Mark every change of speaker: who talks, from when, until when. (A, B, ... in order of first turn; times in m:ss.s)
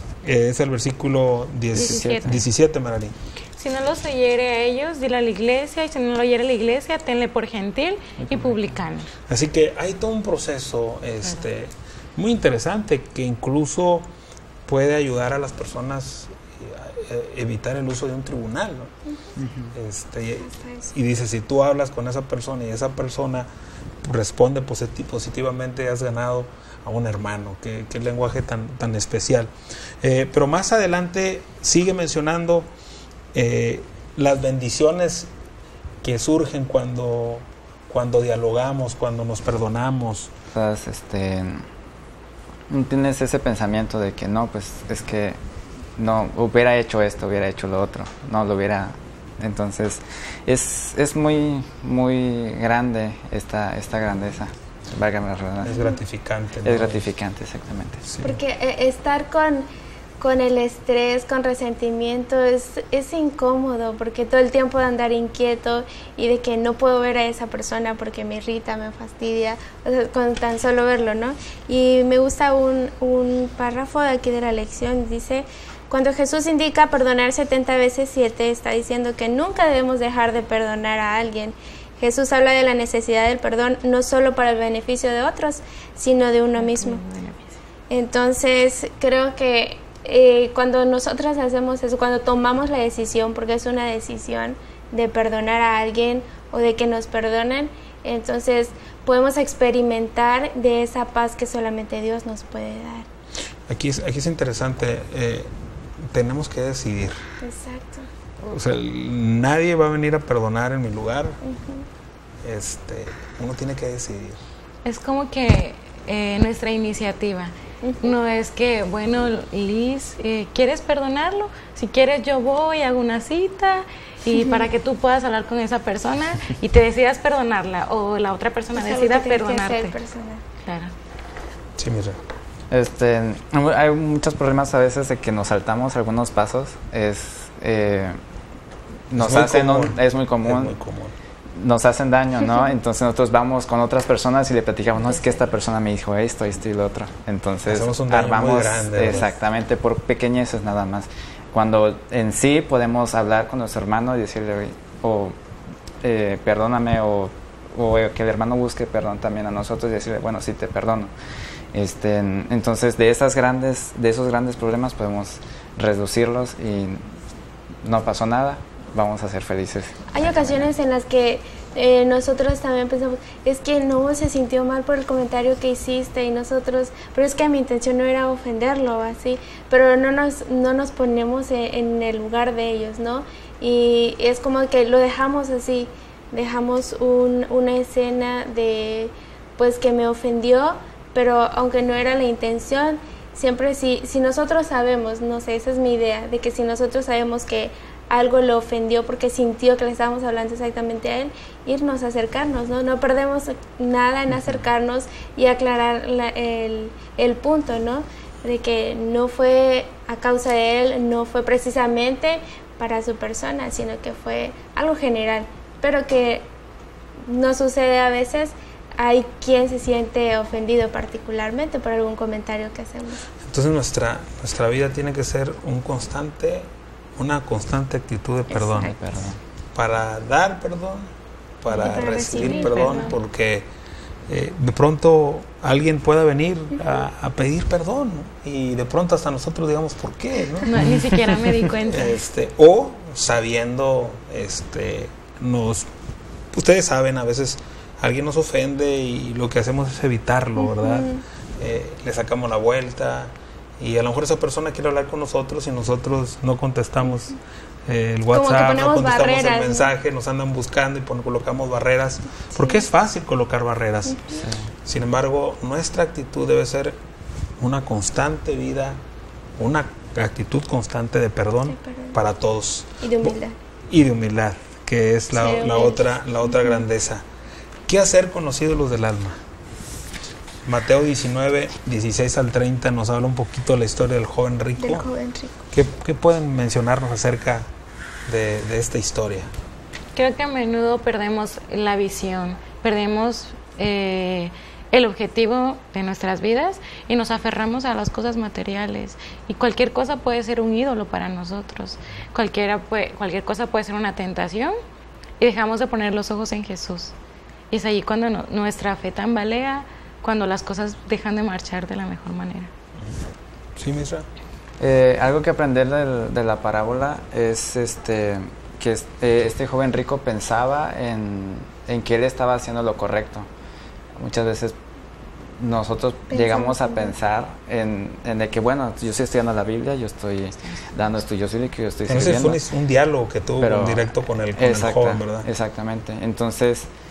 0:00.2-0:03.2 A
0:01.7-0:02.4 B
0:01.7-0:02.4 C
0:03.6-0:09.1 C
0:08.2-0:08.5 A
0:09.3-0:14.1 A
0:14.7-0:18.9 A
0:19.6-0:23.5 A
0:20.4-0:20.9 D
0:24.0-0:32.7 A
0:33.3-0:35.3 A
0:36.0-0:40.3 A
0:40.5-0:41.6 B
0:42.7-0:45.4 B
0:46.0-0:55.8 B
0:55.6-0:57.1 A
0:56.6-0:58.0 B
0:58.0-0:58.4 A
0:58.2-0:59.6 D
1:00.2-1:27.0 D
1:26.5-1:27.5 C
1:27.9-1:43.1 D
1:43.7-1:45.5 A
1:46.0-1:47.2 A
1:47.4-1:48.1 D
1:48.4-1:51.4 A
1:51.4-1:51.9 D
1:52.4-1:54.4 A
1:54.8-2:10.0 C
1:57.8-1:58.1 D
2:04.4-2:04.6 D
2:08.7-2:10.4 D
2:10.6-2:10.9 C
2:11.8-2:12.2 A
2:12.7-2:18.2 B
2:19.1-2:20.7 B
2:19.1-2:21.1 A
2:21.5-2:35.4 B
2:25.1-2:25.4 C
2:27.7-2:29.3 A
2:36.0-2:41.1 B
2:41.7-2:47.1 B
2:47.8-2:50.7 B
2:50.1-3:36.4 D
3:37.3-3:43.2 D
3:43.4-3:49.0 A
3:48.5-3:48.9 D
3:48.8-3:49.4 B
3:49.7-3:51.1 A
3:51.6-3:53.7 A
3:51.7-3:53.1 D
3:52.4-3:53.1 C
3:54.3-4:00.8 A
4:00.6-4:02.2 C
4:01.8-4:05.9 A
4:06.5-4:27.0 A
4:10.6-4:11.2 D
4:18.3-4:19.9 D
4:24.1-4:24.4 D
4:24.4-4:24.6 B
4:27.6-4:29.0 A
4:29.6-4:33.4 A
4:31.7-4:32.2 D
4:33.0-4:33.5 D
4:33.9-4:37.2 A
4:35.3-4:36.8 D
4:37.9-4:39.4 A
4:40.6-4:45.1 A
4:44.8-4:45.6 D
4:45.7-4:47.7 A
4:48.3-4:49.5 A
4:50.1-5:04.7 C
5:05.4-5:07.1 C
5:07.7-5:12.7 C
5:13.8-5:14.2 A
5:14.8-5:23.5 B
5:24.1-5:24.8 B
5:25.6-5:32.6 B
5:26.3-5:27.1 D
5:32.1-5:35.4 A
5:33.6-5:36.9 B